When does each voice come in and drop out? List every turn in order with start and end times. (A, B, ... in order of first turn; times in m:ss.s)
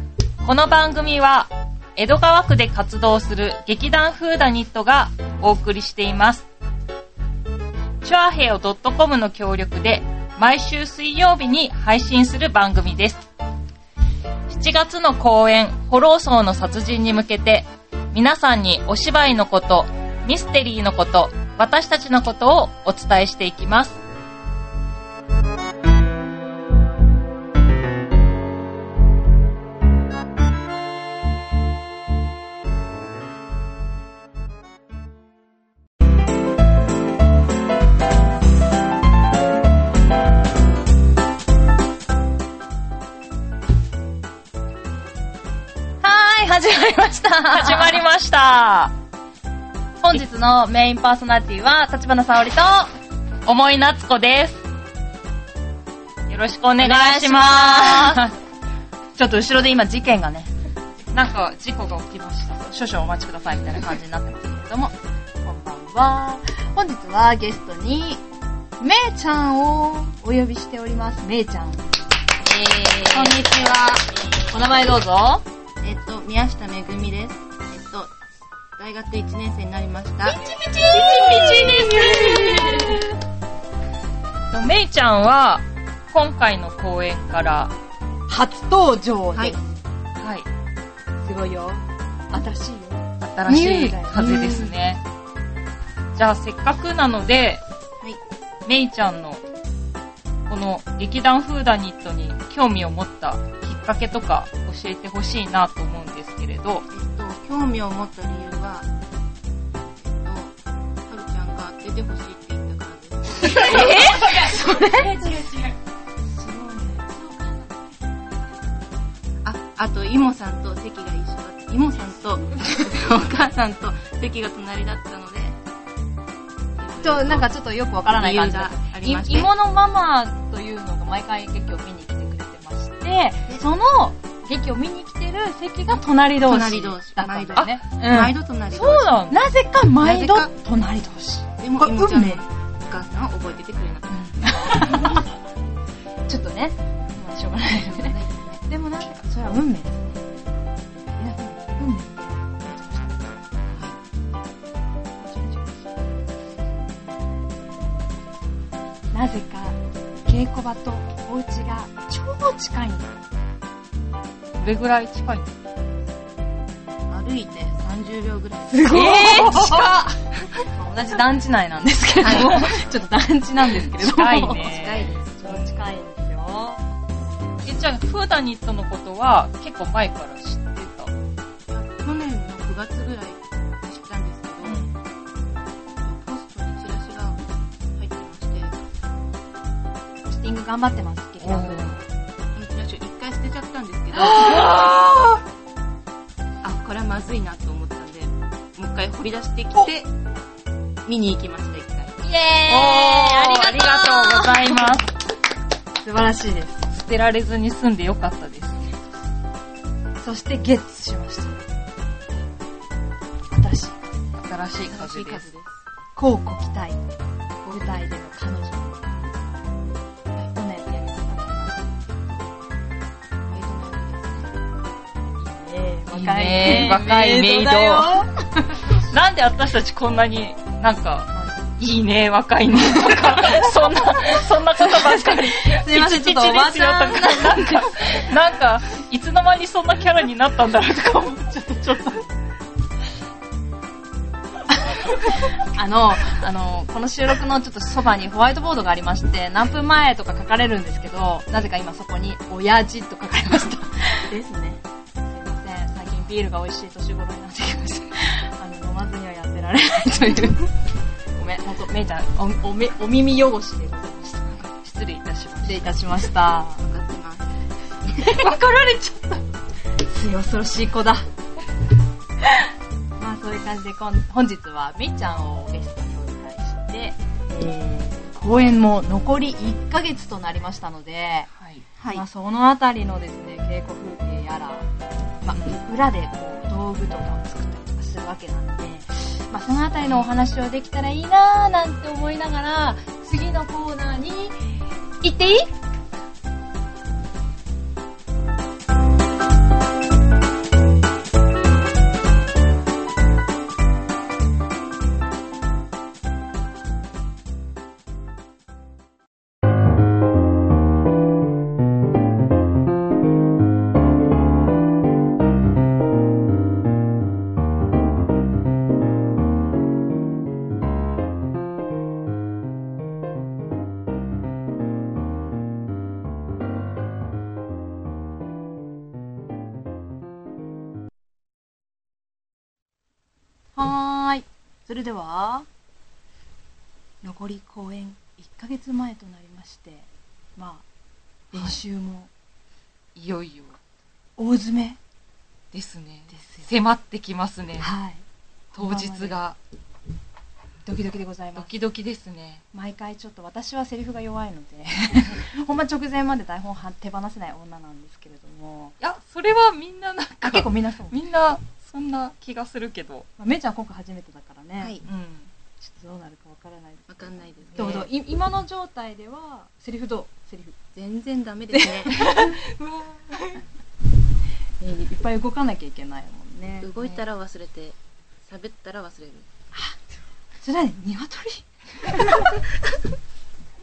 0:00.4-0:06.4 A
0:08.0-0:13.2 A
0:14.5-0:24.0 A
0:46.0-0:48.0 B
0:47.5-0:48.9 A
0:50.0-0:52.9 B
0:53.4-0:54.6 A
0:56.3-0:58.3 A
0:56.8-0:58.3 B
0:59.2-1:00.5 B
1:01.1-1:02.6 A
1:02.6-1:08.2 B
1:08.8-1:11.9 B
1:12.5-1:15.4 B
1:12.8-1:13.6 C
1:15.8-1:18.1 C
1:18.8-1:20.4 C
1:20.2-1:23.0 B
1:20.9-1:22.1 A
1:21.1-1:22.1 C
1:24.5-1:27.7 A
1:28.3-1:29.8 B
1:30.2-1:30.5 A
1:31.2-1:33.0 B
1:33.2-1:35.0 A
1:33.5-1:34.7 C
1:33.7-1:34.4 B
1:36.1-1:37.6 A
1:38.6-1:39.4 A
1:40.5-1:46.8 A
1:46.9-1:48.9 C
1:50.0-1:50.6 C
1:51.1-1:54.6 C
1:53.4-1:55.4 B
1:53.5-1:55.0 A
1:56.3-1:57.8 B
1:59.4-2:05.6 C
2:06.8-2:07.5 C
2:07.0-2:18.4 B
2:08.1-2:09.5 C
2:16.4-2:19.2 C
2:18.7-2:19.4 A
2:19.3-2:22.4 B
2:20.0-2:20.5 C
2:21.6-2:24.4 C
2:24.4-2:25.3 B
2:26.3-2:30.2 B
2:27.7-2:28.6 C
2:31.2-2:33.3 B
2:35.1-2:36.0 B
2:39.1-2:43.1 B
2:44.6-2:45.5 A
2:47.1-2:49.5 C
2:48.7-2:50.1 B
2:48.9-2:50.0 A
2:50.7-2:54.7 B
2:52.2-2:52.7 C
2:52.3-2:52.6 A
2:54.0-2:55.7 C
2:54.2-2:55.2 A
2:55.4-2:56.8 B
2:57.6-3:01.1 A
3:01.7-3:04.8 C
3:04.6-3:04.9 A
3:06.0-3:07.4 C
3:07.9-3:08.8 C
3:10.2-3:12.0 B
3:11.4-3:12.0 A
3:12.5-3:14.8 C
3:14.1-3:15.4 A
3:16.6-3:20.1 C
3:21.0-3:22.2 C
3:22.2-3:25.0 B
3:22.7-3:25.1 A
3:26.0-3:26.9 B
3:26.9-3:28.9 A
3:30.2-3:31.6 B
3:33.5-3:34.1 B
3:34.3-3:35.5 A
3:34.9-3:35.8 C
3:36.2-3:37.1 B
3:37.6-3:39.5 B
3:40.3-3:42.0 B
3:43.5-3:44.5 C
3:45.4-3:48.9 B
3:46.1-3:48.2 A
3:49.0-4:02.2 A
3:51.3-3:51.7 B
3:52.8-3:58.0 B
4:04.9-4:14.4 B
4:14.3-4:14.8 C
4:15.3-4:20.7 B
4:21.3-4:24.6 B
4:24.6-4:26.2 A
4:25.6-4:26.8 B
4:26.8-4:28.5 C
4:28.2-4:29.4 A
4:30.0-4:31.2 B
4:33.2-4:41.5 B
4:41.5-4:41.8 A
4:42.1-4:44.9 B
4:45.4-4:55.7 B
4:50.0-4:50.3 A
5:33.7-5:35.7 B
5:37.2-5:40.8 B
5:41.5-5:42.3 B
5:41.5-5:41.8 A
5:43.2-5:43.8 A
5:44.4-5:45.0 B
5:45.7-5:47.9 A
5:46.3-5:46.7 B
5:47.8-5:49.4 B
5:48.7-5:49.6 A
5:50.8-5:51.7 B
5:51.6-5:52.6 A
5:52.7-5:58.9 B
5:59.0-6:03.3 A
6:00.4-6:01.2 B
6:03.4-6:05.0 B
6:05.0-6:05.5 A
6:05.8-6:10.8 B
6:07.1-6:08.1 C
6:11.0-6:12.1 C
6:11.7-6:12.5 B
6:12.1-6:13.6 A
6:14.8-6:17.0 B
6:16.8-6:19.5 C
6:20.6-6:22.6 B